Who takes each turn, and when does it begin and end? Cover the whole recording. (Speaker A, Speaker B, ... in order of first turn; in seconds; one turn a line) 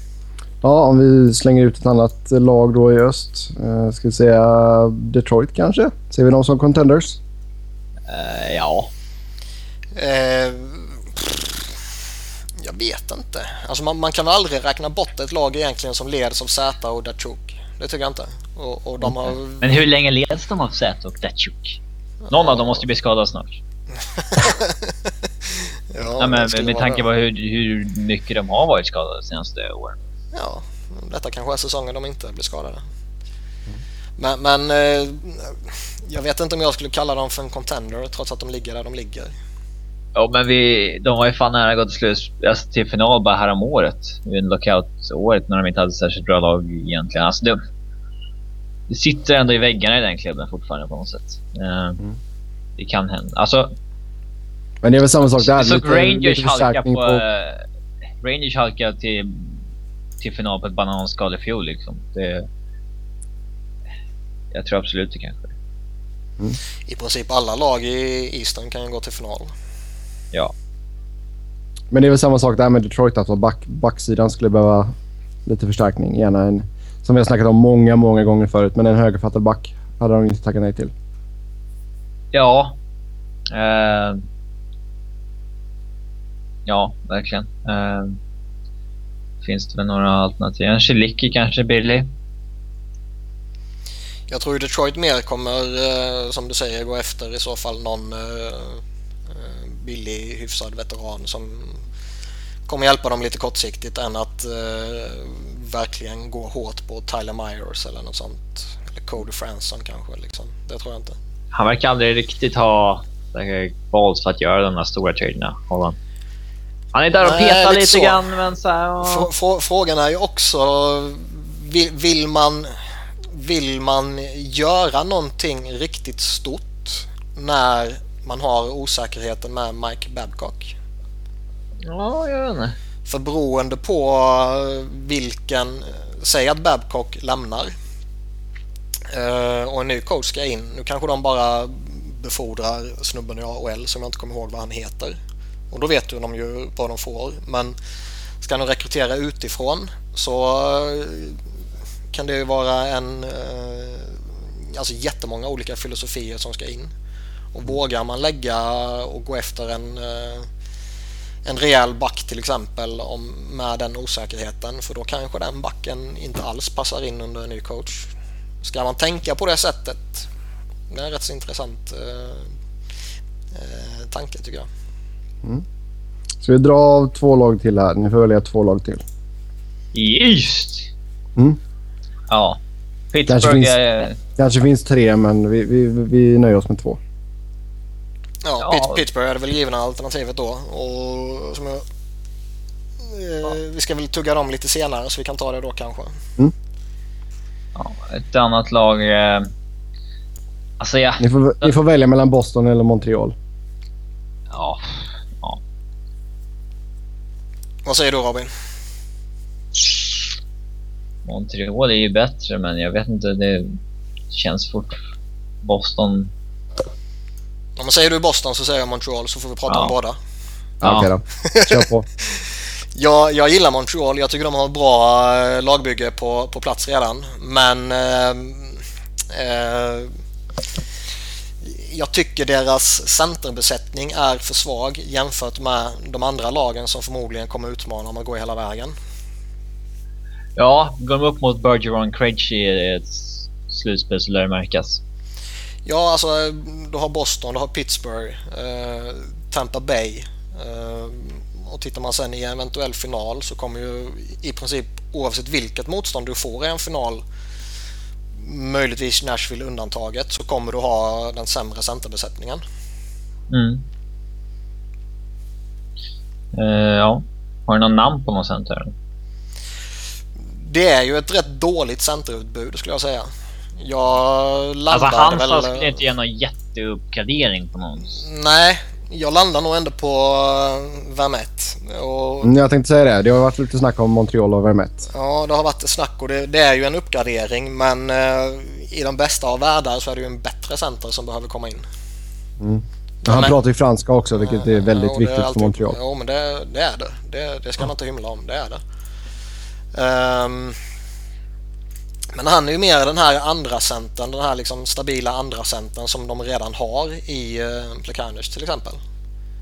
Speaker A: 0.6-7.2
Speaker B: 8.1-8.9
Speaker C: 9.9-11.8
Speaker C: 12.6-19.6
Speaker B: 19.3-21.8
Speaker C: 22.2-22.8
Speaker B: 22.3-23.6
Speaker C: 24.1-27.0
Speaker B: 26.2-30.0
Speaker C: 30.3-32.8
Speaker C: 34.2-39.3
Speaker B: 40.1-47.6
Speaker B: 48.9-52.0
Speaker B: 52.8-53.7
Speaker A: 54.8-57.2
Speaker B: 55.2-57.6
Speaker B: 58.2-59.6
Speaker B: 60.2-62.5
Speaker B: 64.5-65.5
Speaker C: 66.9-69.5
Speaker A: 71.9-74.9
Speaker A: 75.5-80.9
Speaker B: 82.3-82.8
Speaker B: 83.5-84.2
Speaker B: 86.7-88.2
Speaker B: 89.4-92.1
Speaker C: 94.3-98.8
Speaker C: 99.3-101.8
Speaker C: 102.7-111.2
Speaker B: 111.5-116.0
Speaker B: 116.9-119.3
Speaker C: 117.2-118.3
Speaker C: 119.0-122.8
Speaker C: 123.3-130.7
Speaker B: 131.8-132.8
Speaker C: 133.1-137.7
Speaker C: 139.1-145.2
Speaker C: 145.7-147.8
Speaker C: 148.4-151.4
Speaker C: 152.1-156.9
Speaker C: 157.5-160.5
Speaker C: 161.4-168.1
Speaker C: 168.6-170.3
Speaker C: 170.9-172.5
Speaker C: 173.5-174.7
Speaker A: 176.4-179.0
Speaker B: 179.9-180.9
Speaker B: 182.3-182.6
Speaker B: 183.1-184.2
Speaker A: 183.3-183.7
Speaker A: 184.4-187.0
Speaker C: 188.4-191.8
Speaker B: 188.6-189.0
Speaker C: 193.0-196.2
Speaker B: 197.7-199.5
Speaker B: 200.8-201.8
Speaker A: 201.2-203.3
Speaker B: 204.5-205.6
Speaker C: 207.8-208.5
Speaker B: 211.2-213.8
Speaker B: 214.3-215.0
Speaker B: 215.6-216.3
Speaker C: 217.8-220.2
Speaker B: 219.7-219.9
Speaker A: 220.8-222.1
Speaker B: 220.8-221.1
Speaker C: 221.5-230.1
Speaker C: 231.6-238.9
Speaker B: 240.6-245.0
Speaker C: 245.8-257.2
Speaker C: 258.4-262.6
Speaker B: 263.5-263.8
Speaker B: 266.5-268.9
Speaker C: 270.6-275.9
Speaker B: 274.9-278.2
Speaker C: 278.1-282.6
Speaker A: 282.4-285.0
Speaker C: 285.1-291.8
Speaker A: 292.6-295.9
Speaker C: 293.3-293.6
Speaker C: 294.4-298.8
Speaker C: 299.9-300.8
Speaker C: 302.3-309.0